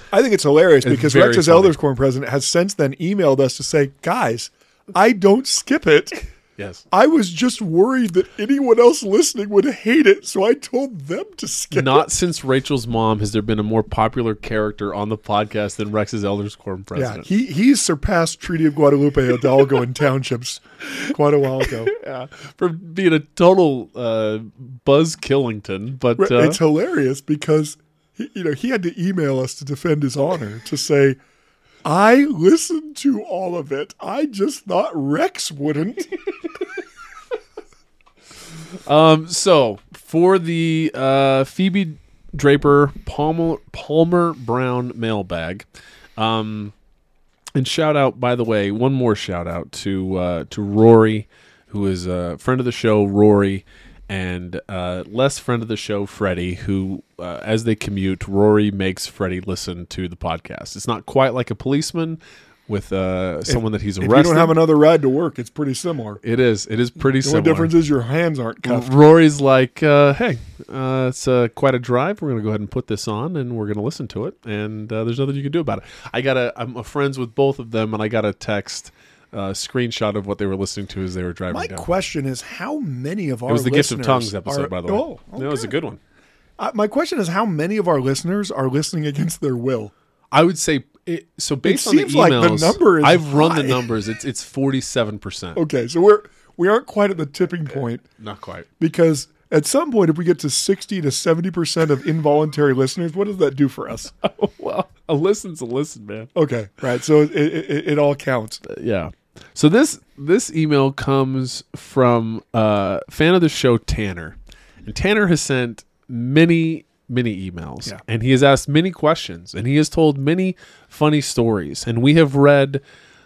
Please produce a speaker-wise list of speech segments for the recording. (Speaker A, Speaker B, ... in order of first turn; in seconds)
Speaker A: 0.1-6.3, 6.9-12.1, 16.9-21.9, 26.2-31.2, 31.8-36.3, 63.5-66.2, 67.2-68.9, 81.5-85.8, 86.6-89.9, 91.6-93.9, 95.6-98.0, 98.8-104.1, 106.3-108.6
Speaker B: 0.8-1.8, 6.6-6.8, 11.7-17.3, 20.9-26.6, 38.9-46.7, 47.5-64.6, 66.2-67.7, 68.6-81.9, 83.5-86.0, 90.3-95.6, 98.2-98.7, 104.2-106.3, 108.7-122.8